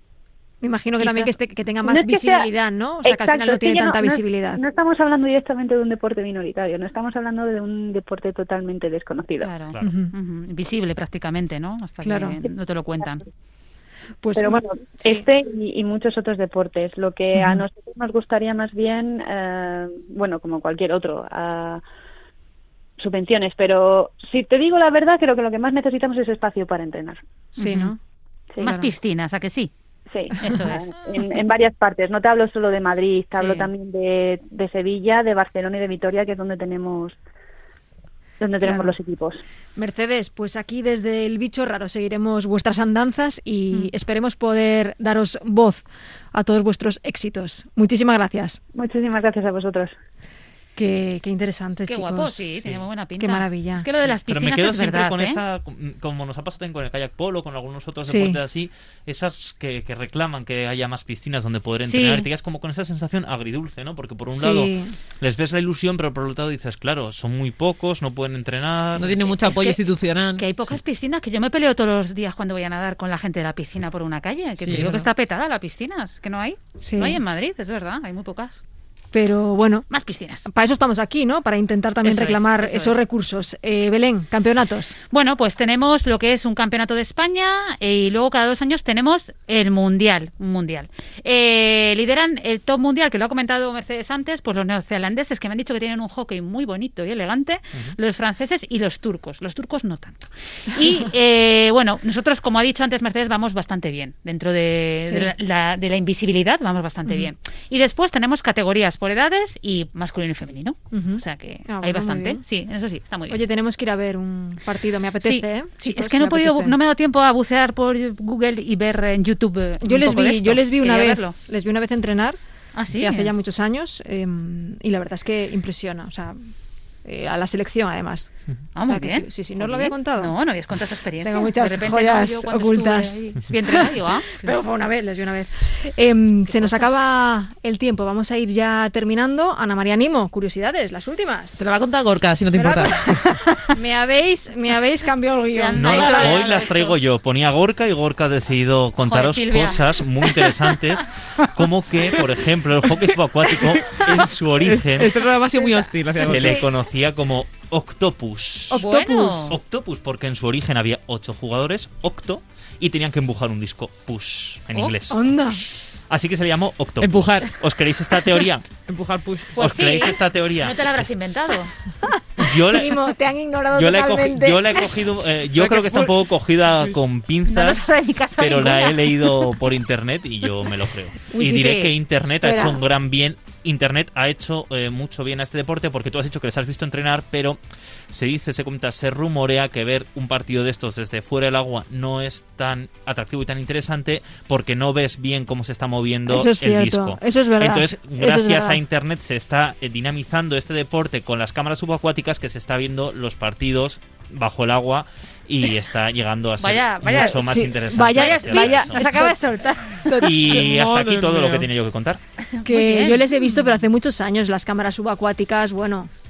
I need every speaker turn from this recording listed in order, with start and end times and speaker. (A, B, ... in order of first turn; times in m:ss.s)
0:00.6-0:04.6 A
0:01.8-0:02.5 B
0:03.0-0:09.5 B
0:09.4-0:13.2 C
0:09.8-0:10.1 A
0:12.0-0:12.4 A
0:14.2-0:15.2 A
0:14.4-0:21.8 B
0:17.3-0:17.6 A
0:23.0-0:27.2 B
0:27.5-0:28.0 A
0:27.6-0:27.9 C
0:28.6-0:29.7 C
0:28.6-0:28.9 A
0:30.1-0:37.1 B
0:30.4-0:30.9 C
0:33.3-0:33.7 C
0:38.4-0:39.4 B
0:38.6-0:38.9 A
0:39.8-0:48.6 A
0:48.7-0:49.9 B
0:50.8-0:52.4 A
0:51.8-0:55.4 C
0:53.2-0:53.9 A
0:54.3-1:09.3 D
0:58.0-0:58.4 A
1:01.9-1:02.3 C
1:04.3-1:04.9 A
1:09.0-1:10.7 E
1:09.2-1:09.8 C
1:10.3-1:18.6 C
1:14.6-1:15.1 E
1:16.8-1:17.2 A
1:19.1-1:19.9 A
1:19.9-1:20.4 C
1:20.4-1:24.9 A
1:22.0-1:23.0 C
1:25.1-1:53.4 C
1:45.0-1:45.3 A
1:50.9-1:52.4 A
1:53.3-1:56.8 A
1:55.2-2:01.3 C
1:59.8-2:02.4 A
2:02.7-2:03.3 C
2:02.9-2:06.5 A
2:07.0-2:10.4 A
2:08.7-2:14.5 C
2:11.2-2:21.6 A
2:16.5-2:16.9 C
2:21.6-2:23.2 E
2:22.5-2:26.6 A
2:25.5-2:27.0 C
2:25.7-2:35.2 D
2:29.0-2:30.4 C
2:33.6-2:36.7 E
2:35.5-2:36.7 A
2:36.1-2:38.8 D
2:38.7-2:39.6 A
2:38.8-2:39.6 C
2:39.5-2:45.3 D
2:45.1-2:45.6 A
2:46.1-2:48.7 D
2:47.0-2:47.6 E
2:48.8-2:49.6 E
2:49.5-2:51.7 C
2:49.6-2:51.0 D
2:52.1-2:54.9 A
2:52.4-2:53.0 D
2:53.7-3:07.6 D
2:55.5-2:57.0 E
2:57.5-2:59.1 C
3:01.3-3:01.9 C
3:02.3-3:02.8 A
3:08.1-3:29.2 D
3:16.3-3:18.8 A
3:26.6-3:30.2 C
3:27.1-3:29.4 A
3:29.9-3:30.5 A
3:30.2-3:32.2 D
3:30.4-3:31.7 E
3:32.6-3:33.7 C
3:32.6-3:36.1 A